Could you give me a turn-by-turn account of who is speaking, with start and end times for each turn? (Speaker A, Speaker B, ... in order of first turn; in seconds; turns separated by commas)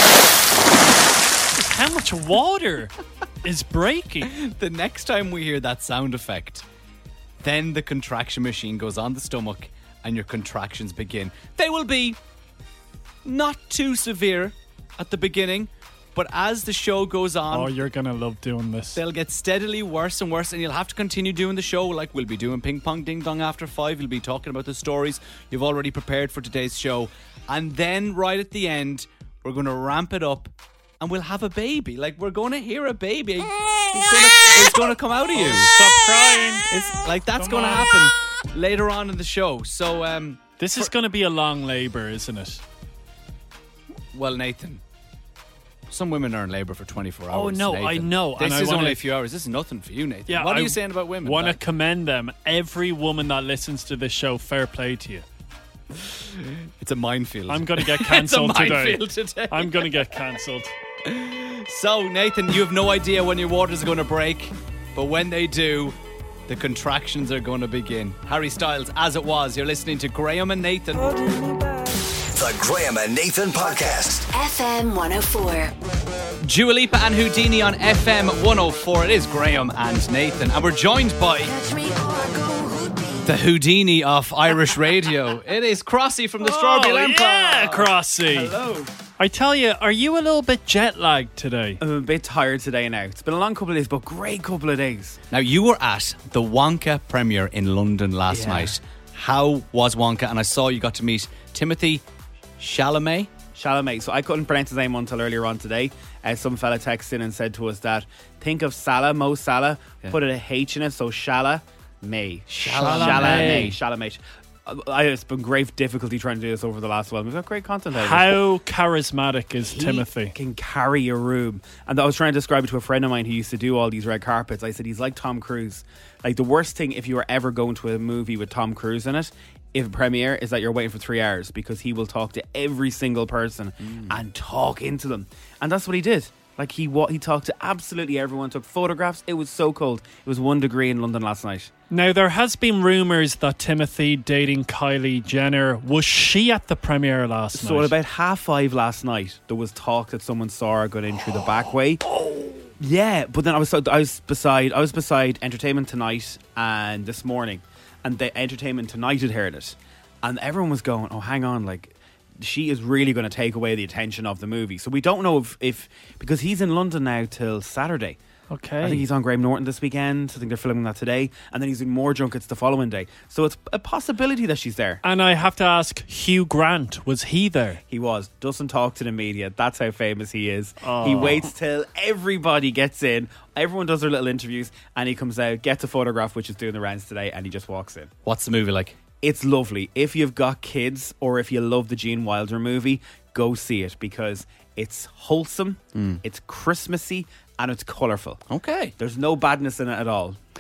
Speaker A: 1.6-4.3, Speaker B: 4.2-6.7, Speaker B: 7.4-12.2, Speaker B: 13.2-17.8, Speaker A: 17.5-19.0, Speaker B: 18.9-35.9, Speaker A: 35.3-36.7, Speaker B: 36.7-40.9, Speaker A: 37.4-37.9, Speaker A: 40.6-42.6, Speaker B: 44.1-44.8, Speaker B: 45.9-51.6, Speaker A: 47.3-49.0, Speaker A: 50.3-55.2, Speaker B: 56.0-60.1, Speaker A: 57.5-60.8, Speaker B: 61.0-71.2, Speaker C: 72.3-74.3, Speaker D: 74.3-75.7, Speaker B: 76.4-81.5, Speaker D: 81.5-83.3, Speaker B: 83.2-87.9, Speaker A: 86.4-88.6, Speaker E: 88.3-88.9, Speaker A: 89.2-91.8, Speaker E: 91.8-95.2, Speaker B: 95.3-102.0, Speaker E: 98.3-98.7, Speaker B: 102.6-103.3, Speaker E: 103.5-118.4, Speaker B: 112.5-113.8, Speaker A: 112.7-113.7, Speaker A: 117.9-120.3, Speaker E: 119.7-141.7, Speaker A: 141.9-147.9, Speaker E: 147.5-152.0, Speaker E: 152.8-168.2, Speaker A: 168.5-169.1, Speaker E: 168.8-175.0, Speaker A: 175.0-177.8, Speaker E: 177.9-188.1, Speaker A: 180.8-181.5, Speaker B: 188.2-189.0, Speaker E: 189.2-198.4, Speaker B: 195.9-196.2, Speaker B: 198.5-198.9, Speaker E: 199.0-200.4